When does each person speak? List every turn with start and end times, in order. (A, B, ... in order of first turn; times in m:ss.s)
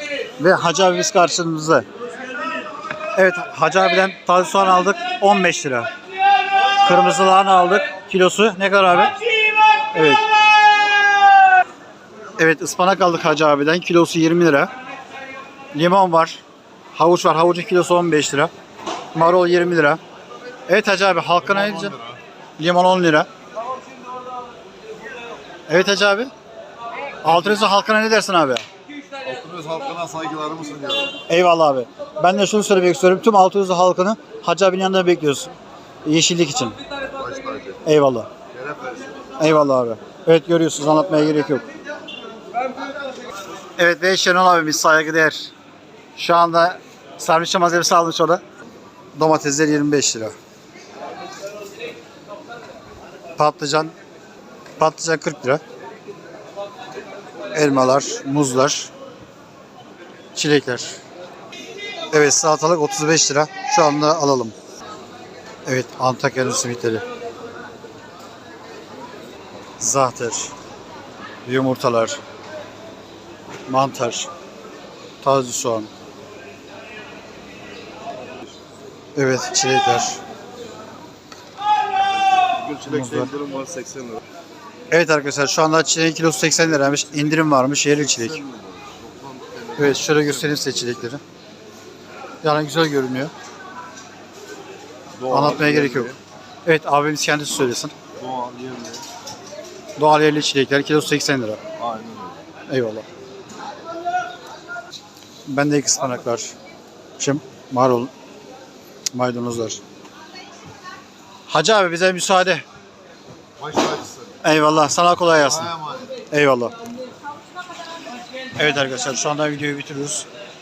0:00.4-0:01.8 A
0:03.2-0:05.9 A
0:06.8-0:09.1 A
0:09.9-0:10.2 A
0:12.4-0:14.7 A
0:15.7-0:16.4 A
0:16.9-0:18.5 A
0:19.1-0:20.0 A
0:20.7-0:22.0 A
0:21.8-0:22.1 B
0:22.6-0:23.3 A
0:25.7-0:26.3 A
0:27.2-0:28.6 A
0:29.2-0:31.2 B
0:31.3-0:35.5 A
0:36.0-0:36.8 A
0:37.2-0:37.8 B
0:37.8-0:38.3 A
0:38.5-0:39.1 B
0:39.4-0:41.6 A
0:43.8-0:45.5 A
0:46.2-0:48.4 A
0:49.1-0:50.3 A
0:53.4-0:53.9 A
0:54.8-0:55.6 A
0:57.5-0:58.9 A
1:00.3-1:01.0 A
1:02.1-1:04.5 A
1:05.6-1:07.0 A
1:09.8-1:10.5 A
1:11.4-1:12.2 A
1:13.7-1:14.3 A
1:15.2-1:15.9 A
1:19.2-1:20.2 A
1:22.3-1:24.2 B
1:22.9-1:23.3 A
1:24.9-1:28.4 A
1:28.0-1:30.7 B
1:29.8-1:31.2 A
1:32.4-1:33.3 A
1:35.2-1:36.2 B
1:35.3-1:36.1 A
1:36.6-1:37.9 A
1:38.1-1:39.0 B
1:40.0-1:41.6 A
1:41.8-1:42.4 B
1:42.7-1:43.0 A
1:45.4-1:46.5 A
1:47.2-1:48.1 A
1:49.1-1:49.8 A
1:51.5-1:52.6 A
1:53.6-1:54.4 B
1:54.4-1:55.7 A
1:55.6-1:56.1 B
1:56.3-1:56.7 A
1:58.6-2:00.2 A